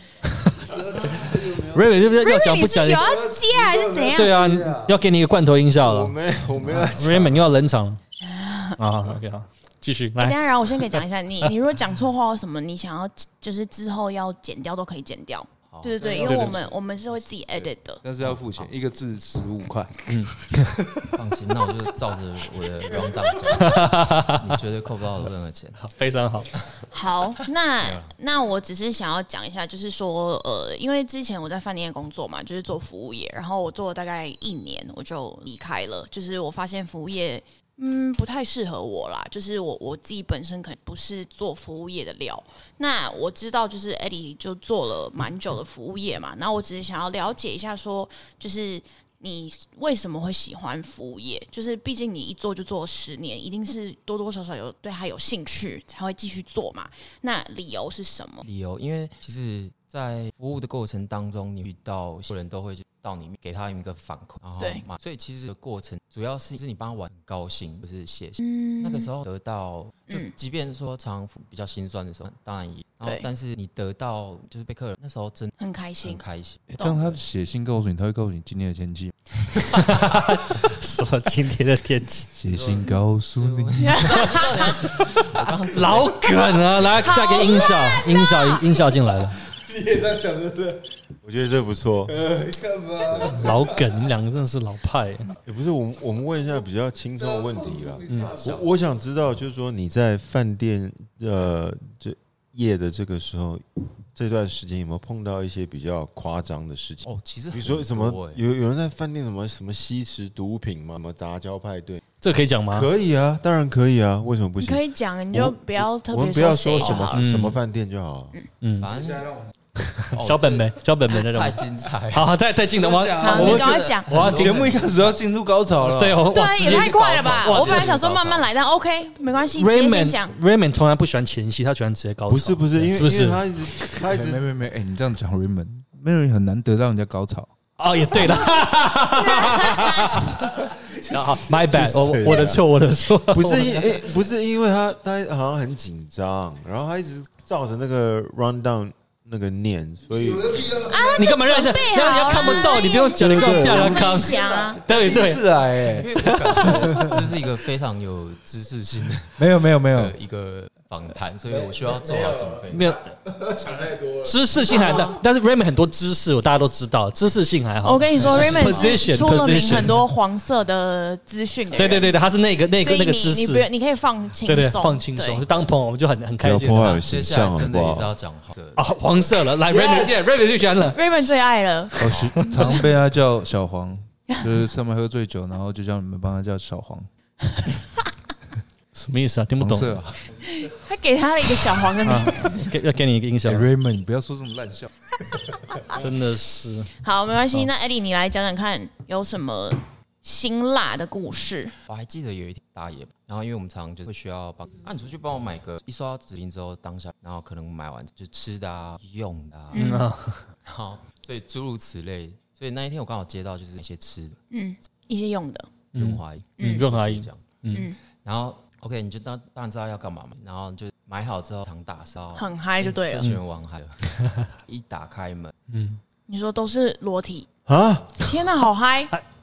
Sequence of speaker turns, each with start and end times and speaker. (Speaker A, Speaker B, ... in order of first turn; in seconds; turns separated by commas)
Speaker A: 0.2-3.1, Speaker B: 1.0-1.5, Speaker C: 2.2-4.4, Speaker A: 4.1-8.0, Speaker D: 5.8-7.5, Speaker C: 8.2-8.8, Speaker A: 8.8-11.5, Speaker C: 10.2-18.0, Speaker E: 15.7-16.2, Speaker A: 16.2-16.6, Speaker B: 18.0-20.1, Speaker E: 18.2-18.7, Speaker A: 20.1-21.0, Speaker E: 21.1-25.8, Speaker A: 23.5-24.5, Speaker A: 25.8-26.5, Speaker C: 26.9-58.4, Speaker E: 27.8-28.1, Speaker E: 58.4-76.6, Speaker C: 68.4-69.1, Speaker C: 75.6-76.2, Speaker B: 76.7-80.0, Speaker C: 76.8-77.0, Speaker A: 79.6-82.3, Speaker B: 82.3-84.1, Speaker E: 82.5-86.3, Speaker C: 83.8-84.8, Speaker A: 85.7-89.4, Speaker C: 87.0-88.6, Speaker B: 89.8-90.8, Speaker D: 91.2-92.2, Speaker B: 92.3-93.3, Speaker E: 93.1-93.3, Speaker A: 93.2-95.3, Speaker D: 95.4-103.6, Speaker A: 98.1-98.4, Speaker E: 98.1-98.6, Speaker D: 104.1-112.0, Speaker E: 107.0-108.4, Speaker A: 112.2-112.9, Speaker D: 112.7-118.3, Speaker C: 114.6-117.3, Speaker E: 116.8-117.1, Speaker A: 117.1-117.6, Speaker A: 118.6-118.9, Speaker E: 118.8-119.5, Speaker A: 119.8-124.7, Speaker E: 120.1-122.3, Speaker B: 122.8-127.4, Speaker C: 123.2-124.1, Speaker E: 123.2-125.2, Speaker A: 125.8-127.9, Speaker C: 126.3-130.3, Speaker E: 126.6-128.5, Speaker A: 129.6-134.0, Speaker D: 132.3-134.4, Speaker B: 134.1-137.5, Speaker A: 137.8-143.9, Speaker C: 139.4-140.0, Speaker D: 141.5-142.6, Speaker D: 143.3-150.8, Speaker C: 150.8-154.9, Speaker A: 151.1-155.4, Speaker D: 153.2-154.1, Speaker B: 154.8-157.3, Speaker E: 155.8-163.0, Speaker B: 159.4-160.1, Speaker A: 162.7-163.1, Speaker A: 164.1-170.0, Speaker C: 167.8-172.2, Speaker E: 168.2-169.6, Speaker A: 171.7-173.7, Speaker C: 172.7-175.4, Speaker A: 174.4-177.0, Speaker D: 176.4-178.1, Speaker E: 177.0-179.0, Speaker A: 178.8-181.0, Speaker C: 180.9-182.8, Speaker B: 182.0-187.1, Speaker E: 182.0-182.5, Speaker A: 188.9-190.0, Speaker B: 189.6-190.2, Speaker C: 190.5-192.8, Speaker A: 192.0-193.7, Speaker B: 193.4-194.9, Speaker A: 195.9-196.9, Speaker C: 197.0-201.7, Speaker E: 201.9-209.9, Speaker C: 209.7-210.1, Speaker A: 209.7-210.4, Speaker E: 210.6-214.4, Speaker C: 214.5-215.7, Speaker E: 215.9-217.4, Speaker A: 215.9-217.9, Speaker C: 216.6-216.8, Speaker E: 218.2-225.5, Speaker C: 222.3-223.3, Speaker A: 224.1-224.5, Speaker A: 225.7-226.0, Speaker C: 226.3-227.5, Speaker D: 227.7-228.2, Speaker C: 228.2-229.1